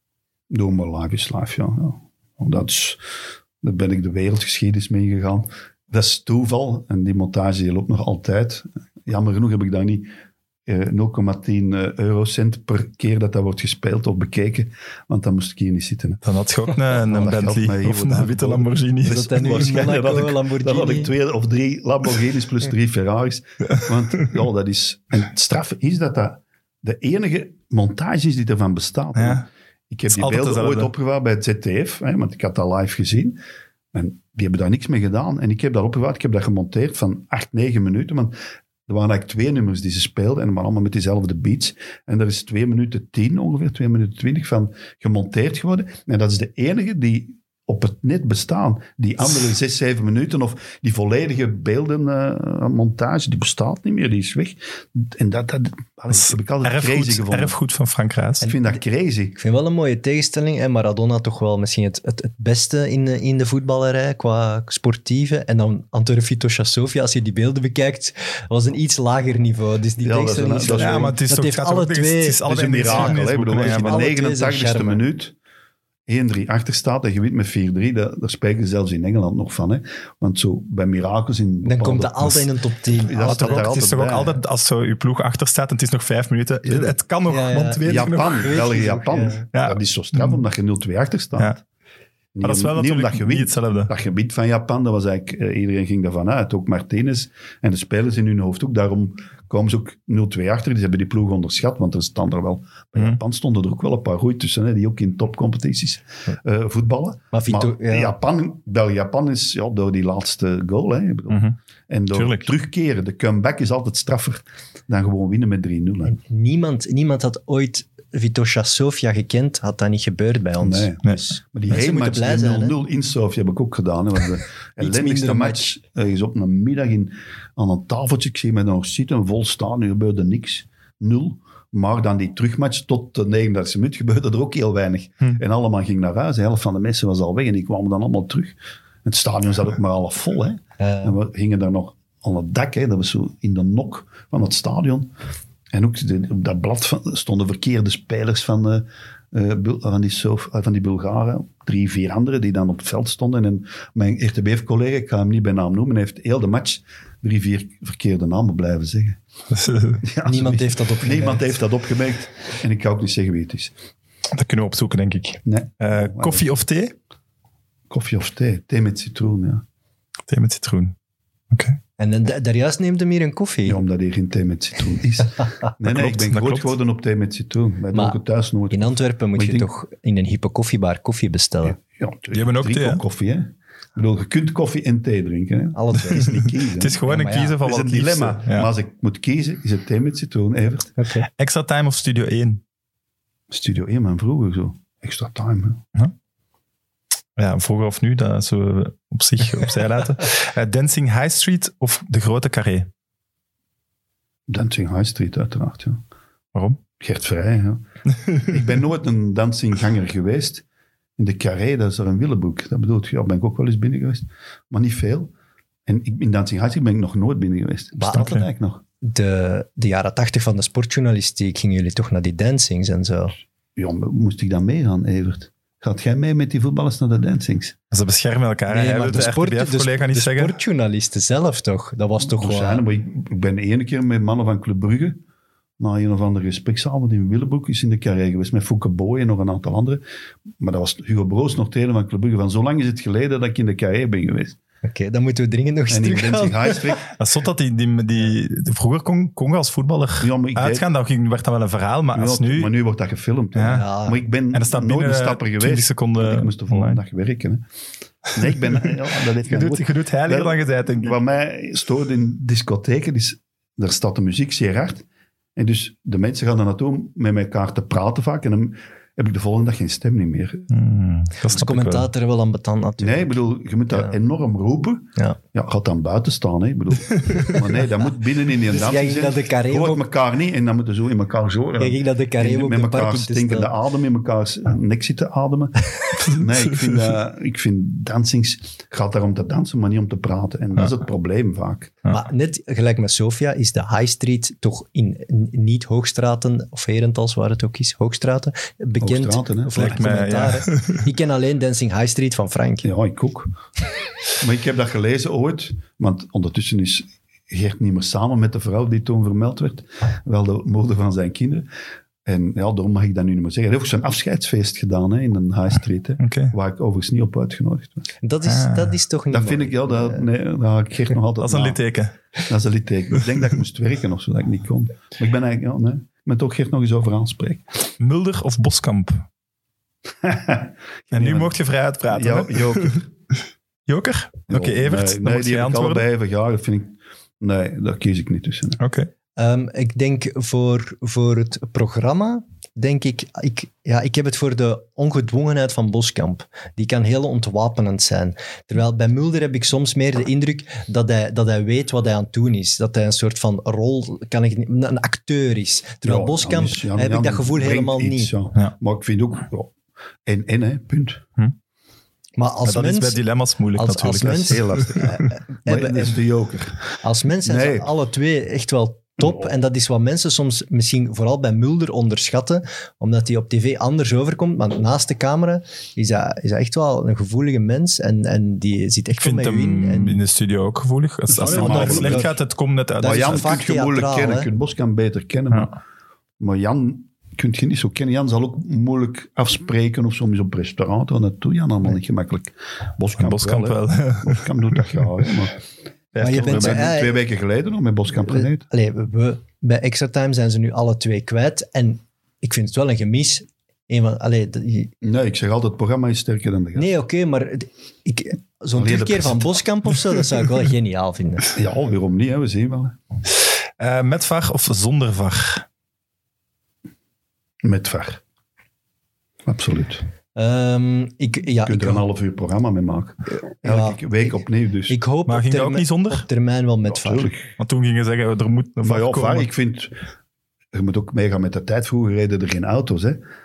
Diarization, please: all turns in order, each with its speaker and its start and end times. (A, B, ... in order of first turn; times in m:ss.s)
0:00.5-0:03.0 A
0:03.6-0:10.1 A
0:10.7-0:16.2 A
0:16.2-0:20.0 B
0:16.9-0:33.4 A
0:19.0-0:21.1 C
0:29.2-0:29.5 B
0:30.1-0:30.9 B
0:33.9-0:38.3 A
0:38.9-0:57.6 A
0:56.1-0:58.5 B
0:58.4-0:59.4 A
0:58.4-0:58.8 C
0:59.4-1:15.0 C
1:10.0-1:11.2 A
1:10.8-1:14.0 B
1:12.5-1:15.4 A
1:16.1-1:22.5 A
1:21.6-1:23.8 C
1:23.0-1:24.4 A
1:23.2-1:28.6 B
1:26.6-1:26.9 A
1:27.3-1:29.5 C
1:27.8-1:31.6 A
1:29.5-1:30.4 B
1:32.4-1:56.2 A
1:32.4-1:33.9 B
1:47.3-1:48.2 C
1:51.3-1:51.6 B
1:52.1-1:52.5 B
1:56.1-2:00.9 C
2:00.6-2:25.1 A
2:01.7-2:02.8 C
2:04.8-2:05.7 C
2:20.8-2:21.2 C
2:25.7-2:39.2 A
2:39.5-2:40.0 B
2:40.0-2:43.8 A
2:40.2-2:41.6 C
2:44.3-2:47.0 B
2:45.5-2:46.4 A
2:47.9-2:49.6 A
2:50.3-2:51.0 B
2:51.5-2:51.8 B
2:52.0-2:53.8 C
2:53.7-2:59.7 A
2:55.8-2:56.7 B
2:57.9-2:58.2 C
2:58.7-3:01.8 C
3:01.6-3:07.0 A
3:02.3-3:03.0 B
3:05.7-3:06.5 C
3:06.8-3:08.7 B
3:07.0-3:07.6 C
3:07.6-3:10.9 A
3:11.0-3:11.3 C
3:11.3-3:12.6 B
3:13.5-3:15.8 A
3:17.4-3:22.9 B
3:24.5-3:26.0 A
3:26.5-3:26.8 B
3:27.0-3:27.8 A
3:28.4-3:30.6 A
3:31.2-3:35.3 A
3:35.9-3:38.8 A
3:38.0-3:38.4 C
3:38.1-3:38.4 B
3:39.0-3:43.4 C
3:43.8-3:47.8 A
3:47.9-3:50.6 B
3:48.7-3:52.8 C
3:52.2-3:55.2 A
3:55.8-4:00.0 A
4:00.6-4:04.6 A
4:04.8-4:07.0 C
4:05.9-4:07.0 A
4:07.2-4:12.7 B
4:10.2-4:10.9 A
4:12.1-4:17.6 A
4:13.6-4:13.9 B
4:13.7-4:14.2 C
4:14.5-4:17.0 B
4:18.3-4:25.0 A
4:19.4-4:21.2 B
4:25.6-4:30.7 A
4:30.7-4:32.1 B
4:31.5-4:33.4 C
4:33.0-4:52.0 A
4:33.9-4:34.2 C
4:38.7-4:40.0 C
4:41.8-4:43.7 C
4:52.1-5:02.9 C
4:59.0-5:00.0 A
4:59.7-5:01.0 B
5:02.8-5:03.6 A
5:04.4-5:11.7 A
5:12.2-5:18.1 A
5:16.2-5:16.5 B
5:18.2-5:20.2 C
5:18.4-5:19.0 B
5:19.3-5:21.8 A
5:21.4-5:22.2 B
5:22.4-5:27.6 A
5:28.0-5:29.2 B
5:30.2-5:31.5 A
5:31.1-5:33.0 B
5:32.1-5:33.1 A
5:33.9-5:36.1 B
5:34.5-5:38.8 A
5:38.8-5:39.1 B
5:39.4-5:58.3 C
5:56.0-5:59.7 A
6:00.2-6:01.3 A
6:02.4-6:03.2 C
6:02.6-6:05.3 B
6:03.8-6:06.2 C
6:04.1-6:06.9 A
6:07.0-6:20.2 C
6:07.4-6:07.9 A
6:09.2-6:09.5 A
6:19.2-6:23.5 B
6:21.3-6:22.4 C
6:21.4-6:22.3 A
6:23.0-6:24.5 C
6:23.0-6:25.7 A
6:26.4-6:35.6 A
6:33.2-6:34.5 B
6:36.1-6:36.9 B
6:36.2-6:37.2 C
6:36.2-6:38.7 A
6:38.2-6:44.9 C
6:45.0-6:46.9 A
6:46.8-6:51.5 C
6:48.8-6:49.6 A
6:51.6-6:53.0 A
6:53.8-6:55.7 B
6:57.6-6:58.2 A
6:59.5-7:00.0 A
7:00.4-7:02.1 C
7:01.6-7:05.0 A
7:03.6-7:04.4 C
7:04.9-7:07.3 C
7:05.3-7:06.2 B
7:06.9-7:07.5 A
7:07.6-7:09.5 B
7:08.8-7:10.0 A
7:10.7-7:13.2 A